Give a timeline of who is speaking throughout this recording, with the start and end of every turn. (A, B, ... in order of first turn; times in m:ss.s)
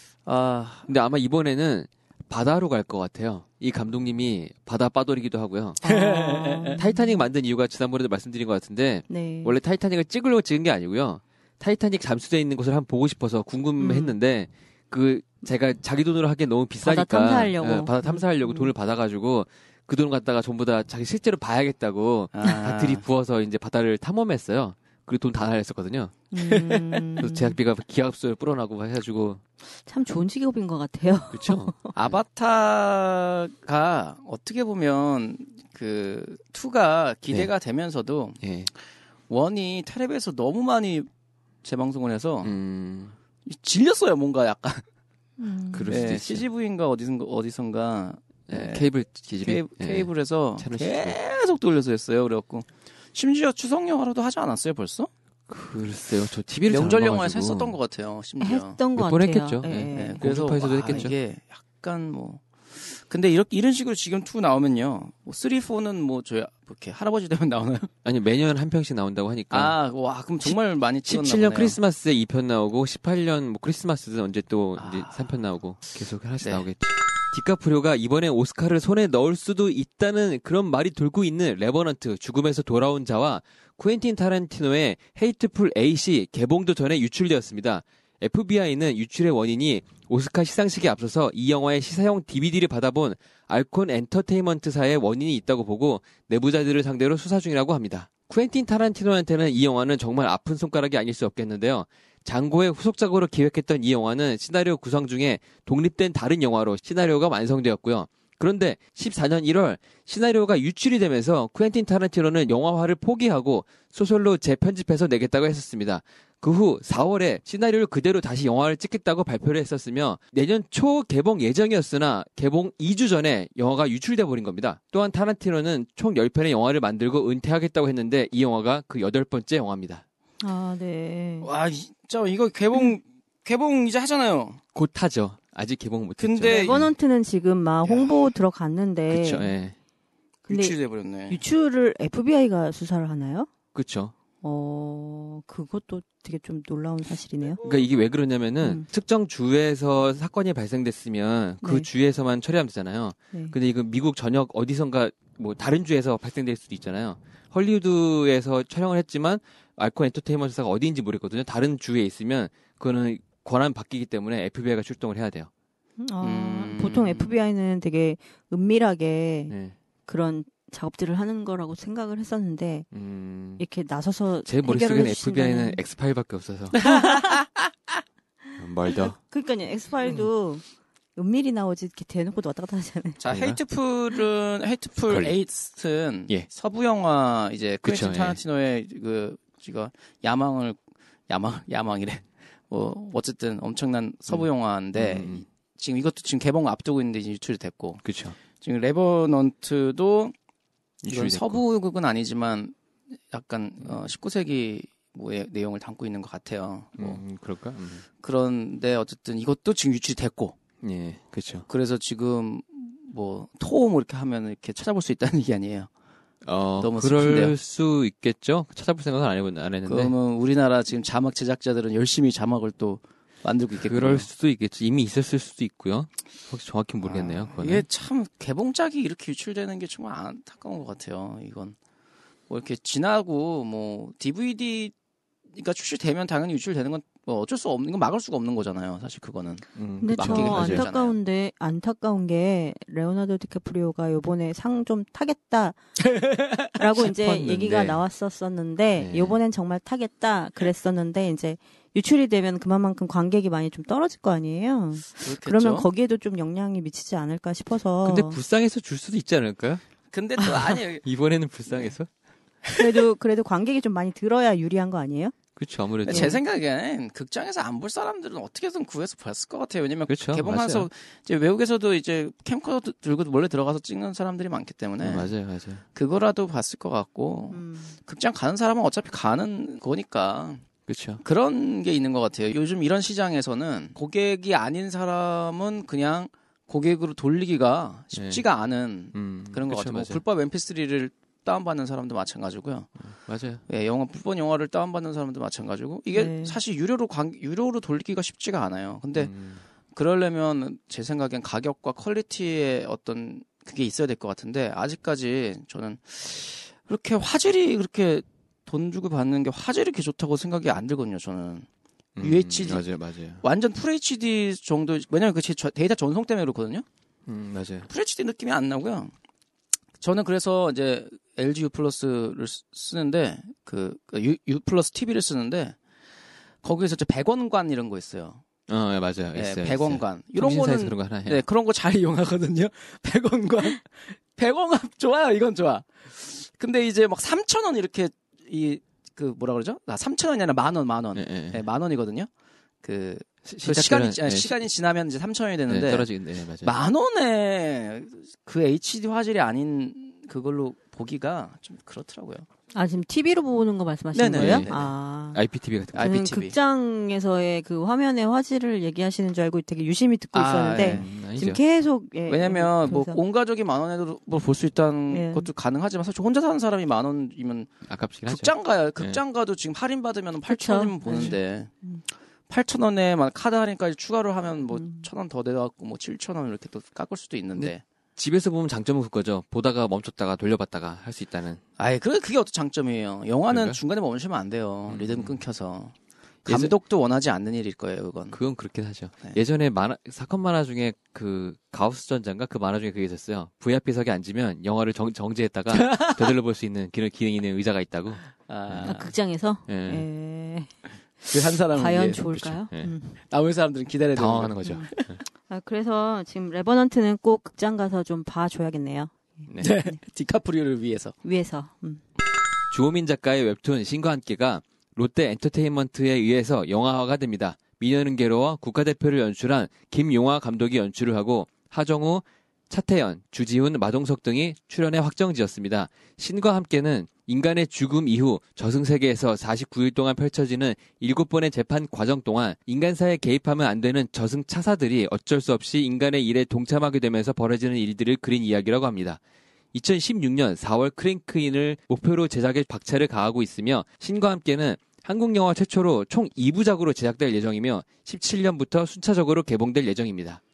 0:00.2-0:00.8 A
0:00.9-0:05.8 B
0:05.8-0:07.2 C
0:05.8-0:06.8 A
0:06.7-0:26.2 B
0:09.1-0:09.6 C
0:13.8-0:14.2 C
0:16.8-0:18.7 C
0:22.3-0:23.0 A
0:26.3-0:27.5 C
0:26.4-0:27.1 A
0:27.2-0:29.4 B
0:29.8-0:31.9 C
0:31.3-0:31.7 B
0:31.9-0:38.4 A
0:38.4-0:38.7 B
0:39.3-0:41.1 A
0:41.6-0:42.5 A
0:42.4-0:43.1 B
0:43.4-0:44.8 A
0:45.4-0:46.1 C
0:45.7-0:46.4 B
0:45.9-0:55.1 A
0:48.5-0:51.2 B
0:55.5-0:57.8 B
0:56.7-0:58.8 A
0:58.4-1:00.3 C
0:59.0-1:01.1 B
0:59.9-1:07.9 A
1:08.0-1:09.7 B
1:09.5-1:11.8 A
1:10.4-2:10.0 B
1:14.8-1:15.3 A
1:16.4-1:16.6 A
2:10.4-2:11.5 C
2:11.4-2:14.6 A
2:14.7-2:16.9 B
2:16.2-2:16.8 A
2:16.5-2:19.5 C
2:17.8-2:18.3 A
2:19.1-2:19.7 B
2:20.5-2:20.8 C
2:20.5-2:21.4 A
2:21.3-2:23.5 C
2:23.7-2:24.1 B
2:24.4-2:27.6 C
2:27.6-2:45.5 B
2:31.6-2:31.9 C
2:46.0-2:49.5 C
2:46.2-2:47.3 A
2:49.5-2:49.8 B
2:50.0-2:52.9 C
2:52.9-2:53.6 B
2:53.6-2:55.8 C
2:54.4-2:57.0 B
2:56.8-2:57.4 C
2:57.0-2:57.4 A
2:58.6-2:59.2 B
2:59.2-3:00.6 C
3:01.2-3:03.2 C
3:03.2-3:18.0 A
3:03.3-3:03.6 B
3:05.0-3:05.3 B
3:07.8-3:08.4 B
3:14.3-3:15.4 B
3:18.0-3:18.4 B
3:18.6-3:20.3 A
3:21.0-3:21.6 B
3:21.1-3:22.7 A
3:23.3-3:27.2 A
3:27.0-3:28.0 B
3:28.2-3:30.6 A
3:30.8-3:31.6 B
3:31.7-3:35.9 A
3:36.4-3:40.1 B
3:36.8-3:37.5 A
3:39.8-3:44.3 A
3:43.8-3:47.8 B
3:47.0-3:51.8 A
3:52.5-3:54.9 A
3:55.5-4:01.2 A
3:59.8-4:00.8 B
4:00.0-4:05.8 C
4:06.0-4:06.8 A
4:06.8-4:18.4 C
4:07.1-4:08.0 B
4:09.0-4:09.4 B
4:15.2-4:15.9 A
4:18.0-4:19.8 B
4:20.1-4:21.0 A
4:20.5-4:22.1 B
4:22.7-4:23.0 A
4:22.8-4:25.3 C
4:25.6-4:26.3 B
4:26.0-4:35.3 A
4:26.1-4:26.4 C
4:30.1-4:30.9 B
4:35.0-4:35.8 B
4:35.9-4:40.6 A
4:37.5-4:38.0 C
4:40.9-4:41.2 B
4:41.2-4:52.9 A
4:48.1-4:48.4 B
4:49.1-4:50.2 B
4:53.1-4:53.6 B
4:53.7-4:59.3 A
4:56.1-4:56.6 C
4:59.1-4:59.6 B
4:59.9-5:11.6 A
5:12.2-5:13.4 B
5:12.2-5:12.8 A
5:13.4-5:16.8 A
5:17.3-5:17.9 B
5:17.9-5:19.1 A
5:20.0-5:25.8 A
5:26.6-5:28.4 A
5:28.7-5:31.4 B
5:29.3-5:42.3 A
5:41.1-5:41.6 B
5:42.8-5:46.1 A
5:43.4-5:44.6 B
5:45.7-5:46.8 B
5:46.6-5:52.4 A
5:52.7-5:55.4 C
5:54.1-5:54.9 A
5:54.4-5:54.7 B
5:55.3-5:56.3 B
5:55.9-5:56.5 A
5:55.9-6:03.2 C
6:00.3-6:01.1 A
6:00.8-6:01.6 B
6:02.3-6:07.7 A
6:05.1-6:05.5 C
6:07.9-6:09.2 B
6:08.2-6:11.7 A
6:10.5-6:12.0 C
6:12.5-6:17.8 A
6:14.7-6:15.0 C
6:17.6-6:21.6 B
6:21.8-6:25.9 A
6:23.5-6:23.8 B
6:24.9-6:25.4 B
6:26.4-6:28.4 A
6:26.5-6:26.7 B
6:28.3-6:39.0 B
6:35.7-6:36.3 A
6:38.5-6:39.1 A
6:38.8-6:43.2 C
6:39.7-6:40.0 B
6:41.3-6:42.3 A
6:42.3-6:42.9 B
6:43.2-6:45.1 A
6:44.1-6:45.2 B
6:44.6-6:44.9 C
6:45.5-6:50.0 C
6:49.6-6:51.1 A
6:51.2-6:52.0 C
6:52.7-7:19.2 B
7:19.7-7:30.4 B